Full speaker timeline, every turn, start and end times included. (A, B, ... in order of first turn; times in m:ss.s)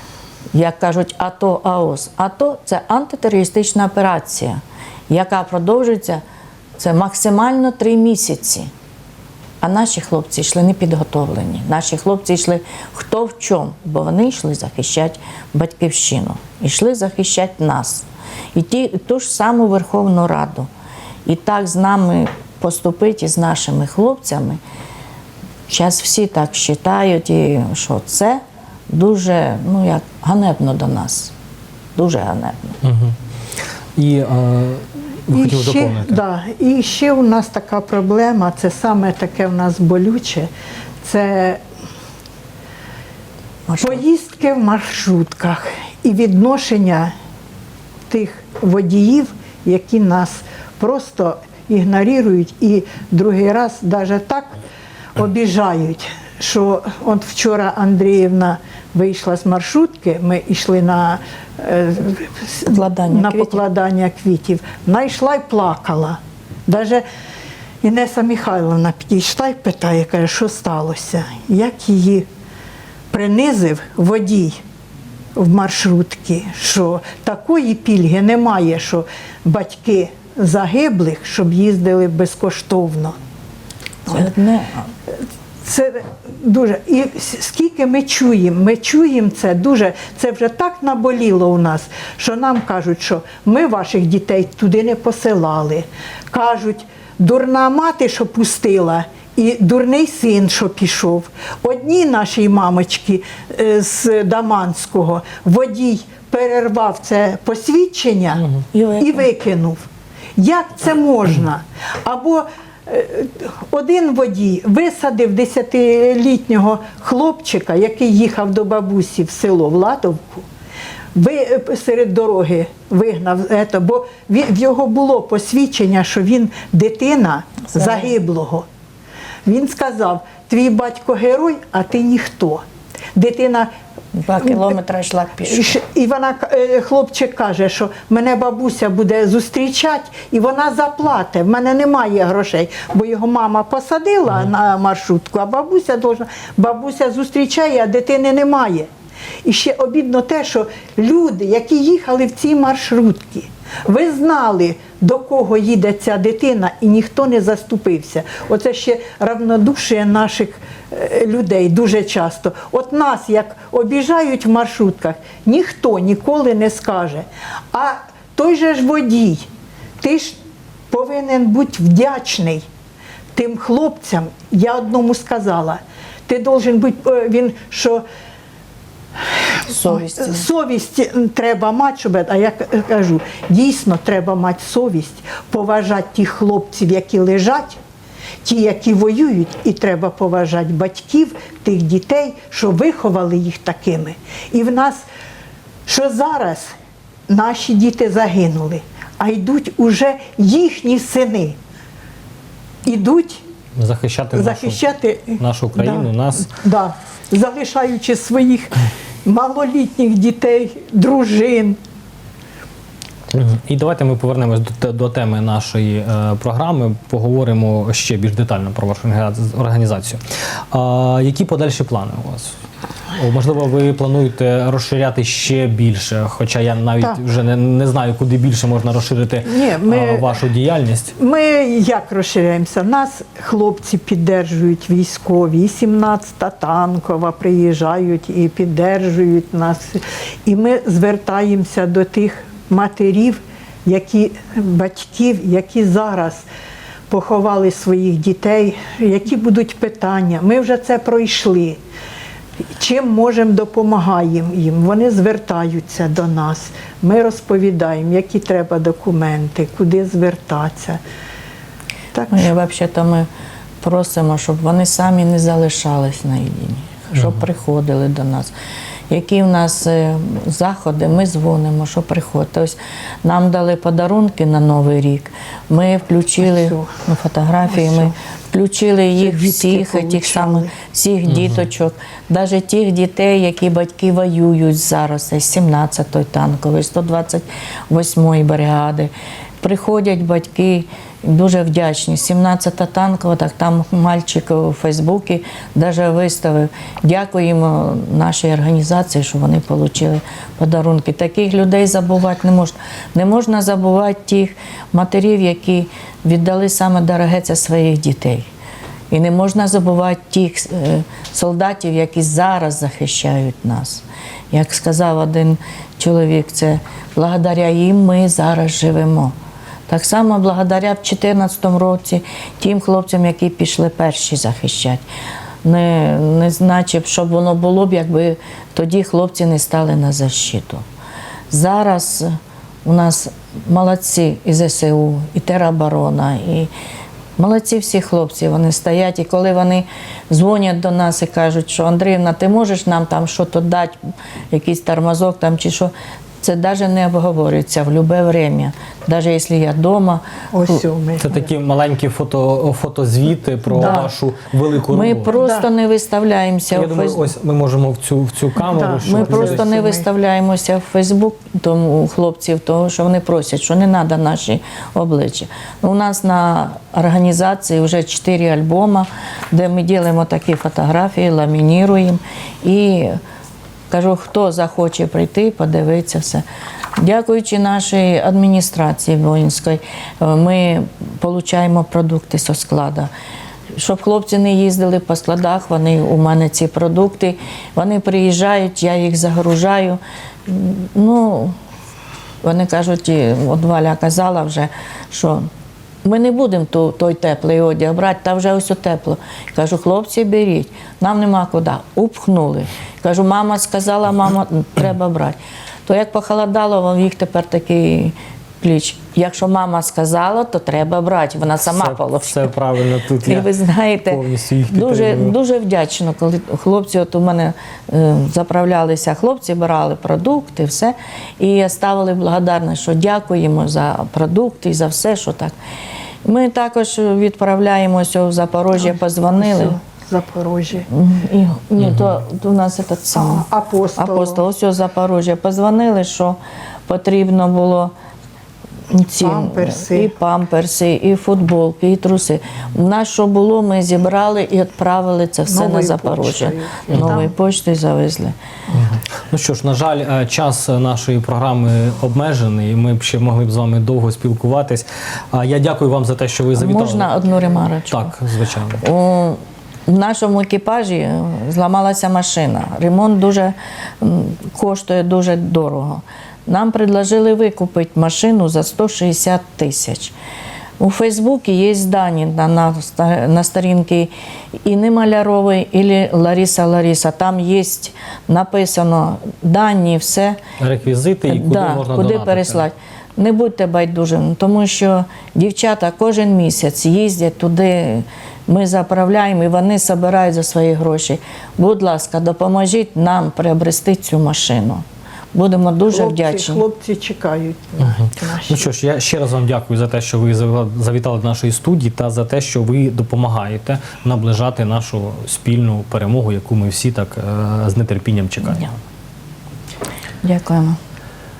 0:00.5-0:06.2 A
0:06.8-0:08.7 A
0:09.6-0:20.7 A
0:21.2-0:24.6 A
0:25.7-0:31.3 A
0:31.9-0:32.8 A
0:32.8-0:33.1 B
0:34.0-0:36.2 B
0:35.3-0:40.5 C
0:41.0-0:41.6 C
0:43.7-0:44.0 A
0:43.8-0:47.1 C
0:48.1-0:54.5 C
0:55.2-1:07.0 C
1:02.6-1:03.6 A
1:07.8-1:12.2 C
1:13.1-1:14.6 C
1:15.4-1:23.2 C
1:24.0-1:24.3 C
1:24.1-1:24.9 A
1:25.6-1:48.4 C
1:48.7-1:49.2 A
1:49.0-2:00.4 C
2:01.1-2:08.6 C
2:07.7-2:08.1 A
2:09.4-2:12.6 C
2:13.1-2:13.7 C
2:14.1-2:15.8 A
2:14.4-2:14.7 C
2:15.4-2:28.9 C
2:29.4-2:49.5 C
2:50.0-2:50.4 C
2:50.9-2:52.6 C
2:53.3-2:58.0 C
2:59.7-3:00.4 A
2:59.8-3:07.8 C
3:08.4-3:15.0 C
3:15.8-3:16.7 C
3:17.3-3:21.6 C
3:22.8-3:23.4 C
3:23.8-3:24.8 B
3:24.3-3:31.8 C
3:25.4-3:26.5 B
3:33.3-3:42.5 B
3:43.1-3:51.1 B
3:49.4-3:50.3 C
3:51.2-4:06.4 C
4:07.1-4:11.8 C
4:12.8-4:21.0 C
4:22.1-4:22.5 C
4:22.2-4:23.3 A
4:23.8-4:28.5 A
4:29.1-5:08.5 A
4:36.4-4:36.9 C
4:37.7-4:38.1 C
4:39.2-4:40.7 C
4:41.3-4:41.6 B
5:09.1-5:19.3 A
5:19.9-5:25.0 A
5:25.6-5:30.8 A
5:31.5-5:36.7 A
5:37.4-5:44.0 A
5:44.5-5:50.8 A
5:50.5-5:51.4 C
5:51.2-5:55.3 B
5:53.7-5:54.1 C
5:53.8-5:54.0 A
5:54.9-5:57.3 A
5:55.3-5:55.7 C
5:56.7-5:59.7 B
5:58.6-6:00.0 C
5:59.0-6:13.2 A
6:13.9-6:16.4 A
6:17.0-6:23.1 A
6:23.8-6:31.5 A
6:32.4-6:35.5 A
6:36.0-6:52.5 A
6:51.6-6:53.5 B
6:53.2-7:05.5 A
6:54.1-6:55.4 B
7:06.2-7:09.8 A
7:08.7-7:10.9 C
7:10.9-7:13.4 A
7:11.8-7:12.1 B
7:13.1-7:14.4 C
7:14.0-7:17.9 A
7:18.9-7:28.4 A
7:19.2-7:20.1 C
7:25.4-7:27.3 C
7:26.9-7:27.2 B
7:28.7-7:38.8 B
7:36.6-7:38.2 A
7:38.8-7:50.1 A
7:50.8-7:54.1 A
7:54.6-8:00.4 A
8:00.6-8:02.7 B
8:01.3-8:16.6 A
8:15.9-8:18.7 C
8:18.0-8:28.7 B
8:30.2-8:30.8 A